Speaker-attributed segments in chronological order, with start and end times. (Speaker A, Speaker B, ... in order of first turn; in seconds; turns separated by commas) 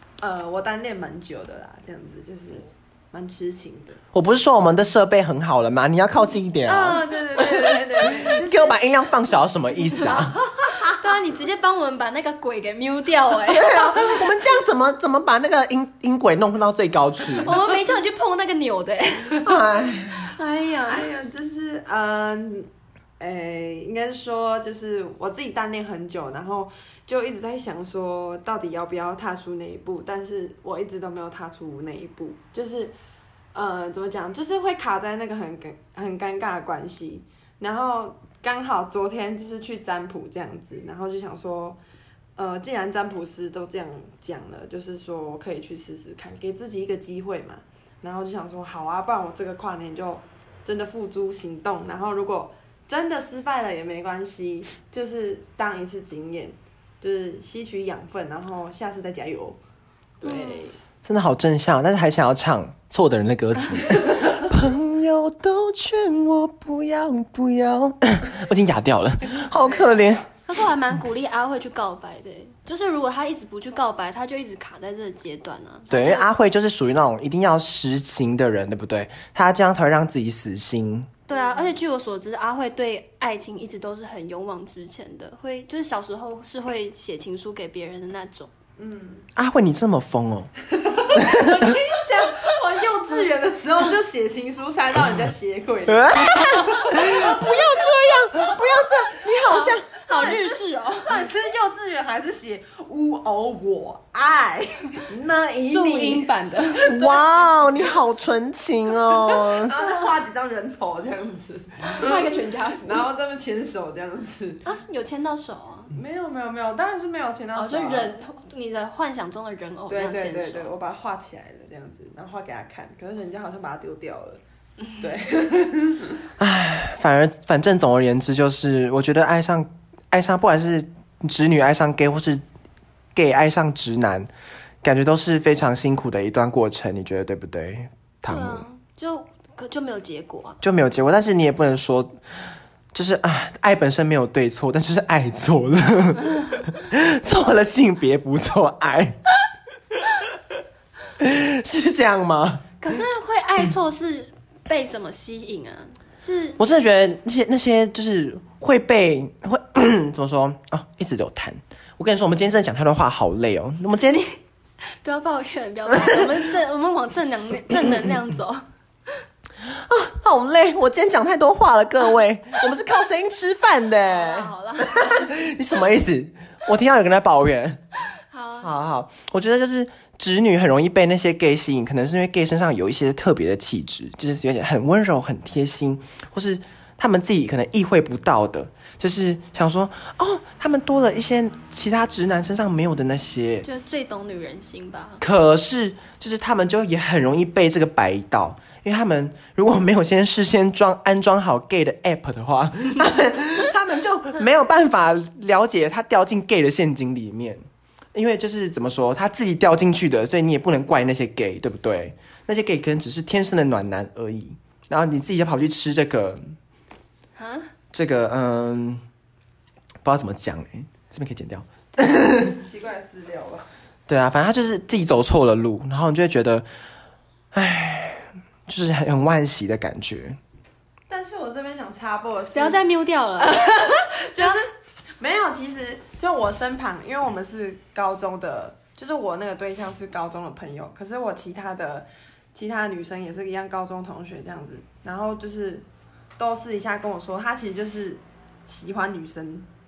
Speaker A: 0.2-4.0, Speaker B: 4.1-10.4, Speaker A: 6.7-8.8, Speaker C: 10.9-14.4, Speaker B: 13.5-17.6, Speaker C: 17.3-19.6, Speaker B: 19.4-20.3, Speaker C: 20.2-21.1, Speaker A: 20.9-32.9, Speaker A: 33.5-41.8, Speaker A: 42.4-59.6, Speaker A: 60.2-60.8, Speaker C: 60.2-60.7, Speaker B: 61.0-70.3, Speaker A: 69.5-70.0, Speaker C: 70.5-76.3, Speaker B: 75.9-81.1, Speaker C: 81.3-88.5, Speaker A: 81.3-81.8, Speaker A: 88.8-89.2, Speaker B: 89.3-90.5, Speaker A: 90.7-97.8, Speaker B: 91.1-91.7, Speaker B: 95.9-100.0, Speaker C: 99.3-101.2, Speaker A: 100.1-108.0, Speaker C: 105.6-107.0, Speaker B: 106.8-109.7, Speaker A: 109.0-114.6, Speaker C: 111.9-113.0, Speaker C: 114.6-115.9, Speaker A: 115.9-118.1, Speaker C: 117.5-120.7, Speaker A: 119.9-124.4, Speaker A: 125.0-126.2, Speaker B: 126.4-132.4, Speaker B: 133.1-134.3, Speaker B: 134.8-138.6, Speaker C: 138.3-140.6, Speaker B: 140.6-142.2, Speaker B: 142.9-149.2, Speaker B: 151.2-152.7, Speaker C: 152.8-156.6, Speaker B: 156.6-164.2, Speaker C: 164.1-164.3, Speaker C: 165.0-169.2, Speaker B: 169.8-177.8, Speaker C: 174.0-175.3, Speaker C: 178.3-178.7, Speaker B: 178.6-193.7, Speaker C: 193.6-195.2, Speaker B: 195.2-207.6, Speaker B: 208.1-216.5, Speaker C: 217.3-217.7, Speaker B: 217.9-219.0, Speaker B: 220.0-222.6, Speaker A: 222.4-223.7, Speaker B: 224.1-226.7, Speaker B: 227.5-230.4, Speaker A: 231.1-232.8, Speaker C: 232.5-234.6, Speaker A: 233.4-234.7, Speaker A: 235.2-245.8, Speaker A: 246.4-249.7